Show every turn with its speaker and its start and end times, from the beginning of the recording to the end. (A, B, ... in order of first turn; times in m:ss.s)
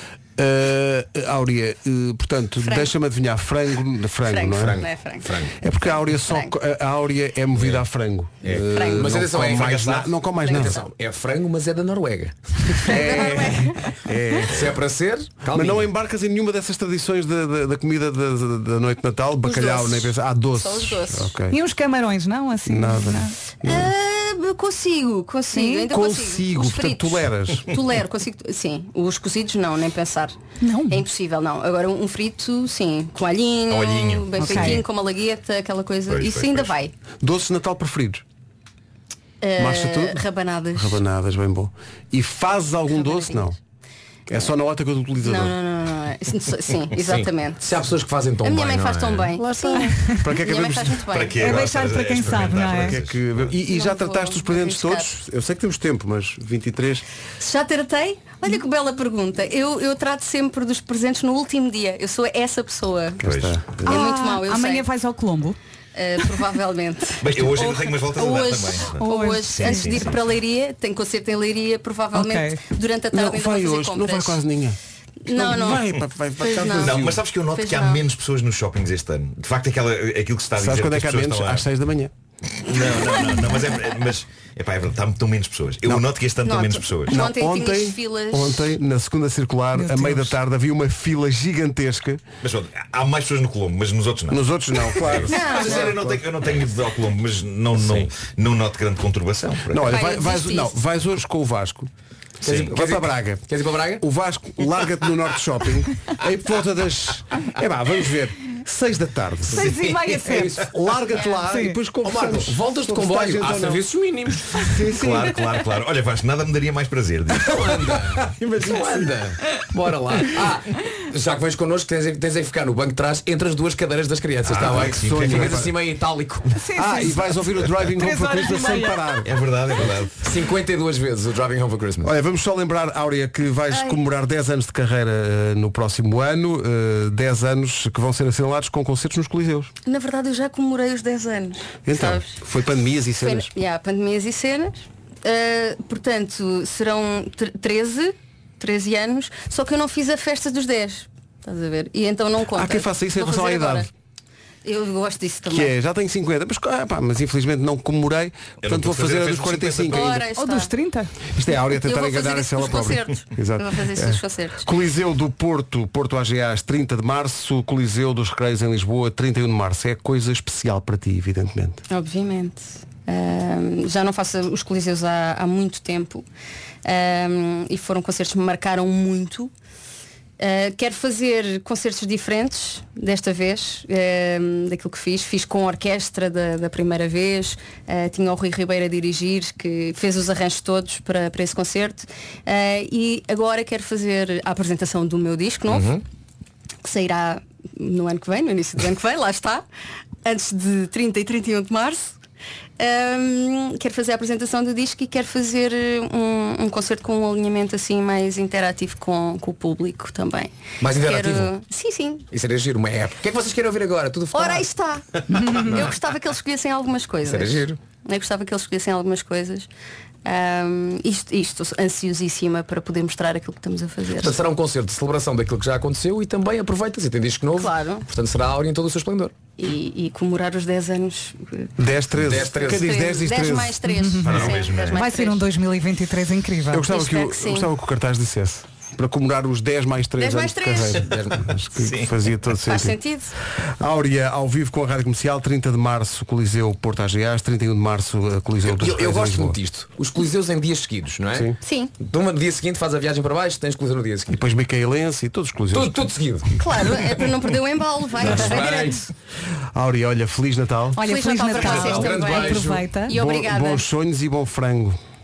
0:00.4-0:04.8 A
0:02.6-0:02.9 B
0:04.2-0:05.3 B
0:04.6-0:05.5 C
0:05.6-0:10.8 A
0:06.2-0:06.5 B
0:08.4-0:13.0 C
0:08.6-0:09.2 B
0:10.4-0:10.8 B
0:12.8-0:14.7 A
0:12.9-0:13.8 B
0:14.5-0:15.9 C
0:15.5-0:21.6 A
0:19.4-0:21.3 B
0:21.5-0:23.4 D
0:22.6-0:23.9 A
0:23.6-0:30.4 B
0:25.5-0:25.9 D
0:25.9-0:27.7 A
0:30.6-0:31.0 D
0:30.9-0:36.9 B
0:33.7-0:34.8 E
0:34.4-0:34.8 D
0:36.1-0:36.7 E
0:37.2-0:38.2 A
0:39.4-0:41.0 B
0:39.6-0:40.2 A
0:40.7-0:43.6 A
0:42.9-0:43.5 B
0:44.3-0:45.6 A
0:45.2-0:47.8 B
0:47.1-0:49.3 C
0:48.4-0:51.5 B
0:49.4-0:50.2 D
0:50.0-0:51.0 A
0:51.1-0:53.5 E
0:51.4-0:53.0 D
0:52.8-0:57.0 A
0:53.6-0:55.1 B
0:57.4-1:03.2 B
1:03.2-1:03.9 A
1:03.2-1:03.8 E
1:03.8-1:05.6 D
1:03.9-1:04.9 B
1:05.9-1:14.4 B
1:07.2-1:10.2 E
1:09.0-1:10.0 D
1:12.1-1:12.6 D
1:13.1-1:14.8 A
1:15.2-1:15.8 B
1:15.3-1:17.2 A
1:16.4-1:18.0 B
1:16.8-1:21.6 E
1:20.6-1:22.1 A
1:22.6-1:27.2 E
1:26.4-1:28.7 B
1:27.1-1:32.2 A
1:29.7-1:30.3 D
1:32.4-1:40.0 E
1:34.3-1:36.2 A
1:35.3-1:35.9 B
1:37.8-1:38.1 C
1:39.7-1:41.9 A
1:39.8-1:40.7 B
1:42.4-1:42.7 E
1:42.4-1:44.0 C
1:42.5-1:43.4 A
1:44.0-1:49.7 A
1:49.5-1:50.6 D
1:50.1-1:50.6 C
1:50.6-1:53.8 A
1:51.4-1:51.8 D
1:52.0-1:54.6 C
1:54.6-1:55.4 A
1:54.9-1:58.0 E
1:57.4-2:06.5 C
1:58.2-1:59.1 A
2:04.4-2:05.7 E
2:04.6-2:05.7 A
2:06.6-2:09.2 D
2:06.8-2:09.3 A
2:09.2-2:10.2 E
2:10.2-2:12.1 C
2:12.0-2:19.7 A
2:13.7-2:14.0 B
2:19.9-2:22.4 B
2:21.9-2:23.5 A
2:23.2-2:33.9 B
2:32.6-2:33.9 A
2:34.6-2:35.7 B
2:35.5-2:40.2 A
2:38.6-2:40.2 E
2:39.9-2:40.7 B
2:40.4-2:41.1 D
2:41.3-2:51.8 A
2:41.7-2:44.6 B
2:51.9-2:56.2 B
2:56.8-2:59.5 B
3:00.4-3:15.9 B
3:15.7-3:16.0 C
3:16.8-3:19.6 B
3:20.2-3:22.2 B
3:22.8-3:32.2 B
3:30.8-3:31.5 C
3:32.3-3:34.7 C
3:34.3-3:39.7 B
3:35.3-3:35.7 D
3:37.2-3:37.8 C
3:40.2-3:44.4 B
3:44.2-3:49.3 C
3:47.6-3:48.0 B
3:49.6-3:51.7 B
3:51.8-3:53.8 A
3:52.2-3:52.9 C
3:52.3-3:55.4 B
3:53.9-3:56.9 D
3:54.2-3:55.1 E
3:56.7-4:03.0 A
3:56.8-3:57.7 B
4:00.2-4:01.1 B
4:01.0-4:01.4 C
4:01.8-4:02.1 E
4:02.7-4:03.3 B
4:03.8-4:09.6 A
4:08.6-4:14.4 C
4:11.6-4:11.9 B
4:14.3-4:16.1 A
4:15.7-4:16.5 C
4:16.6-4:19.0 B
4:18.2-4:19.0 C
4:18.2-4:18.5 A
4:19.7-4:21.0 A
4:20.9-4:23.1 D
4:21.0-4:23.8 B
4:21.6-4:22.8 C
4:23.1-4:25.0 A